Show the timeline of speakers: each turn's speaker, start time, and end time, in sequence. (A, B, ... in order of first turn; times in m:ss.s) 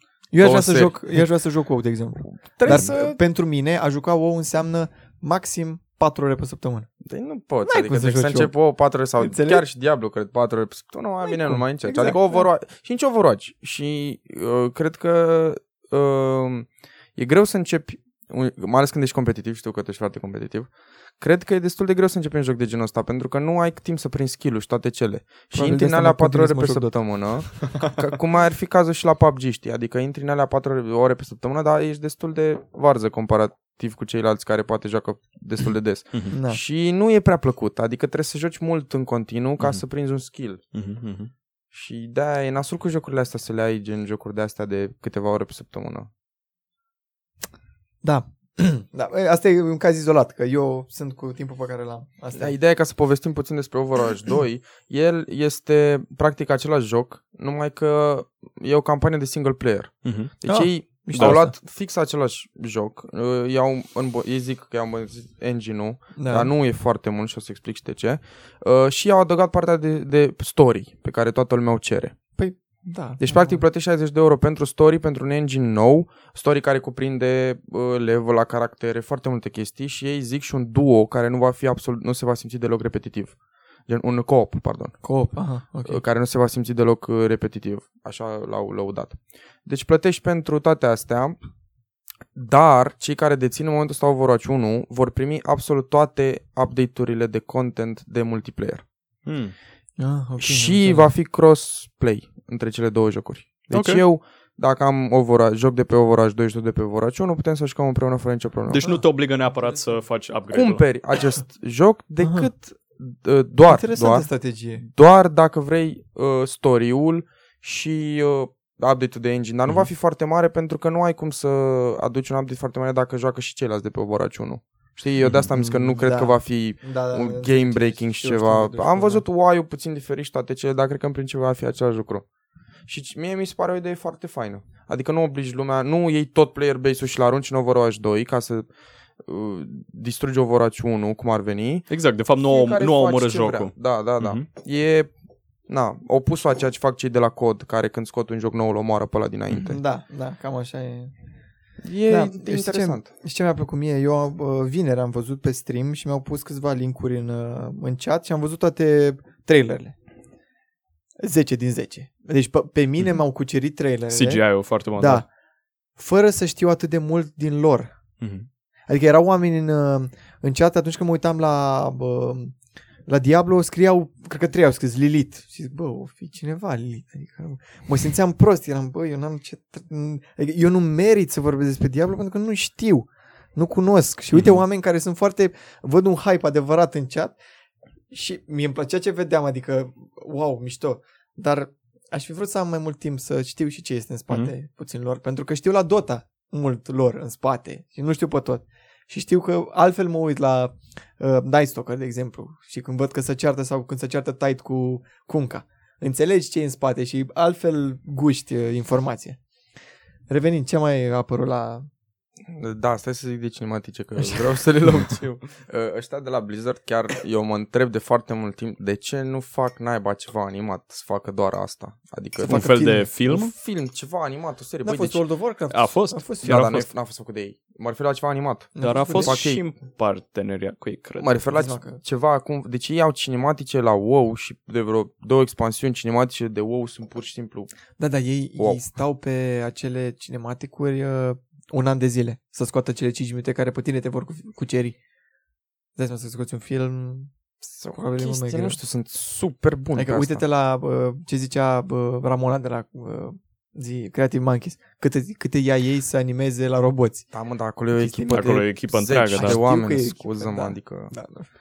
0:00.3-0:06.9 A
0:00.4-0:00.9 B
0:02.2-0:03.2 B
0:07.0-0:40.6 B
0:07.6-0:08.5 A
0:09.2-0:09.6 A
0:11.2-0:12.4 A
0:25.5-0:27.0 A
0:36.3-0:36.6 A
0:40.7-0:41.3 C
0:41.7-0:46.1 B
0:48.0-0:52.5 A
0:52.3-1:12.2 B
1:00.0-1:00.3 C
1:00.5-1:01.5 A
1:01.1-1:01.4 C
1:06.2-1:06.5 A
1:12.4-1:13.6 A
1:13.2-1:23.4 B
1:23.9-1:25.0 B
1:25.0-1:26.0 A
1:25.8-1:31.4 B
1:32.3-1:38.8 B
1:39.2-1:39.5 C
1:40.0-1:41.1 A
1:40.4-1:48.9 B
1:43.7-1:44.0 C
1:48.7-1:50.8 C
1:50.5-2:12.2 B
1:52.2-1:52.5 A
1:53.6-1:54.8 A
2:05.2-2:05.5 C
2:05.5-2:09.2 A
2:12.9-2:18.7 B
2:19.2-2:21.9 B
2:21.9-2:24.4 C
2:22.4-2:25.1 B
2:25.7-2:29.8 B
2:29.6-2:31.1 A
2:31.8-2:33.1 B
2:32.1-2:39.9 A
2:41.2-2:45.3 A
2:44.1-2:45.2 C
2:46.0-2:47.9 A
2:48.2-2:48.5 C
2:48.9-2:52.5 A
2:53.1-3:07.4 A
3:04.3-3:04.6 C
3:08.1-3:29.4 A
3:30.3-3:31.9 A
3:32.5-3:45.2 B
3:42.4-3:43.5 C
3:42.4-3:43.2 A
3:44.8-3:46.6 A
3:45.7-3:46.9 C
3:46.4-3:49.6 B
3:48.8-3:49.4 A
3:48.8-3:51.4 C
3:51.2-3:57.7 B
3:51.5-3:52.0 A
3:58.0-4:05.0 A
4:06.0-4:07.3 A
4:07.7-4:10.4 B
4:07.9-4:08.8 A
4:09.9-4:17.3 A
4:17.3-4:21.1 B
4:17.9-4:21.5 A
4:18.3-4:19.6 C